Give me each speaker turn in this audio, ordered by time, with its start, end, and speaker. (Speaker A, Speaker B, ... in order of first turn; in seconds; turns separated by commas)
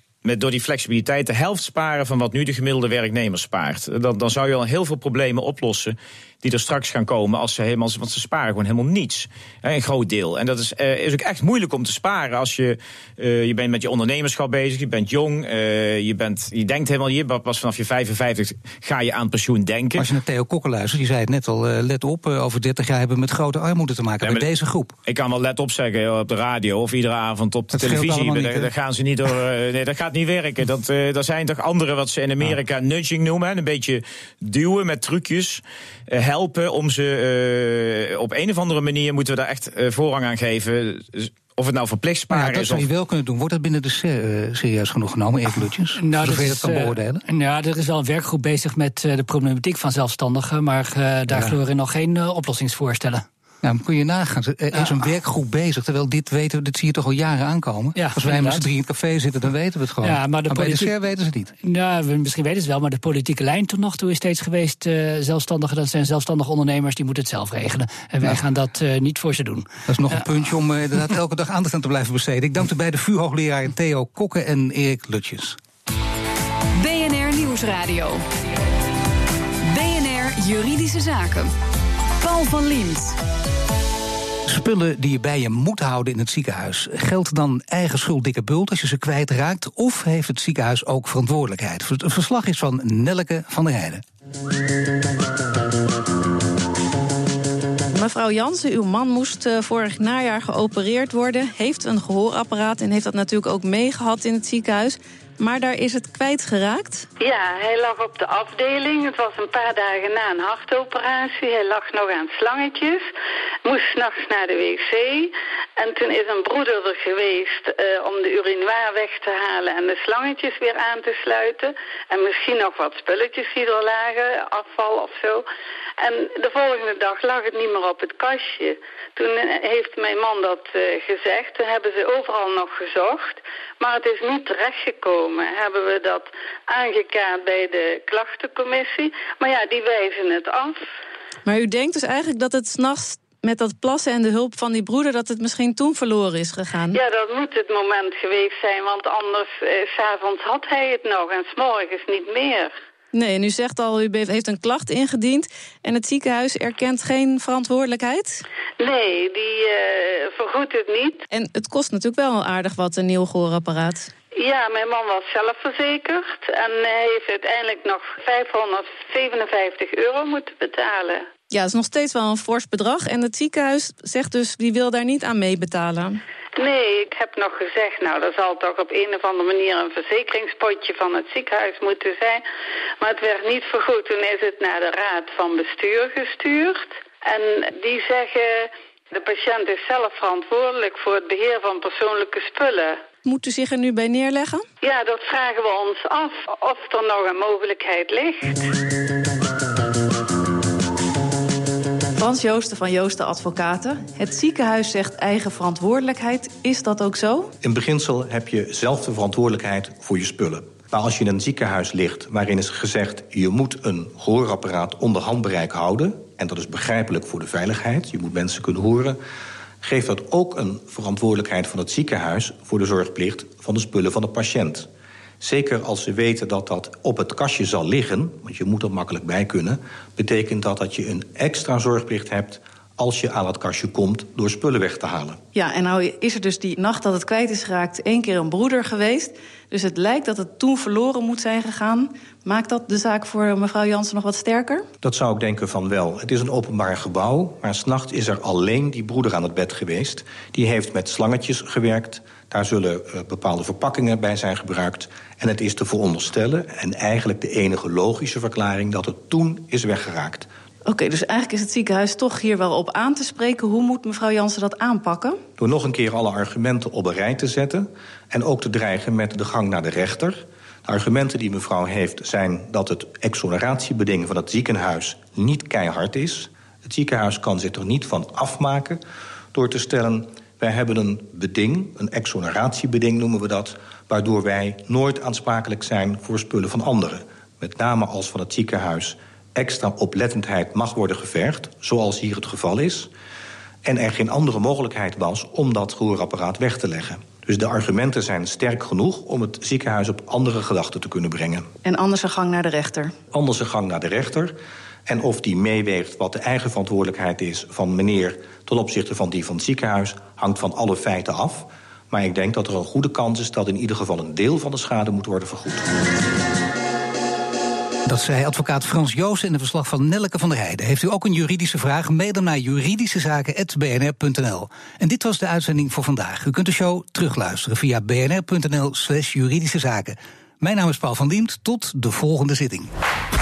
Speaker A: 0.2-20.1, Speaker B: 20.0-24.9, Speaker A: 25.1-42.9, Speaker B: 27.7-28.7, Speaker B: 42.3-47.2, Speaker C: 46.0-53.2, Speaker B: 51.3-51.5, Speaker B: 53.6-61.5, Speaker C: 58.0-58.7, Speaker C: 60.0-60.9, Speaker C: 61.6-70.2, Speaker B: 69.9-75.6, Speaker D: 76.7-78.2, Speaker D: 79.6-81.5, Speaker D: 82.2-83.2, Speaker B: 84.5-94.0, Speaker E: 97.9-107.0, Speaker F: 107.2-113.1, Speaker F: 113.6-125.5, Speaker F: 126.0-140.8, Speaker E: 141.4-147.0, Speaker F: 146.9-152.7, Speaker E: 153.1-158.4, Speaker F: 158.8-161.2, Speaker E: 161.3-164.1, Speaker F: 164.3-171.3, Speaker E: 171.5-176.2, Speaker F: 176.6-182.4, Speaker F: 183.0-193.0, Speaker E: 193.2-194.6, Speaker F: 194.8-198.7, Speaker E: 202.2-207.5, Speaker G: 207.6-219.2, Speaker G: 219.8-224.9, Speaker G: 225.4-235.4, Speaker E: 235.5-244.9, Speaker G: 245.0-260.5, Speaker E: 260.9-265.4, Speaker G: 265.6-279.0, Speaker G: 279.5-293.1, Speaker G: 293.8-301.7, Speaker E: 301.8-303.1, Speaker G: 303.3-304.5, Speaker G: 305.1-315.9, Speaker B: 318.1-332.9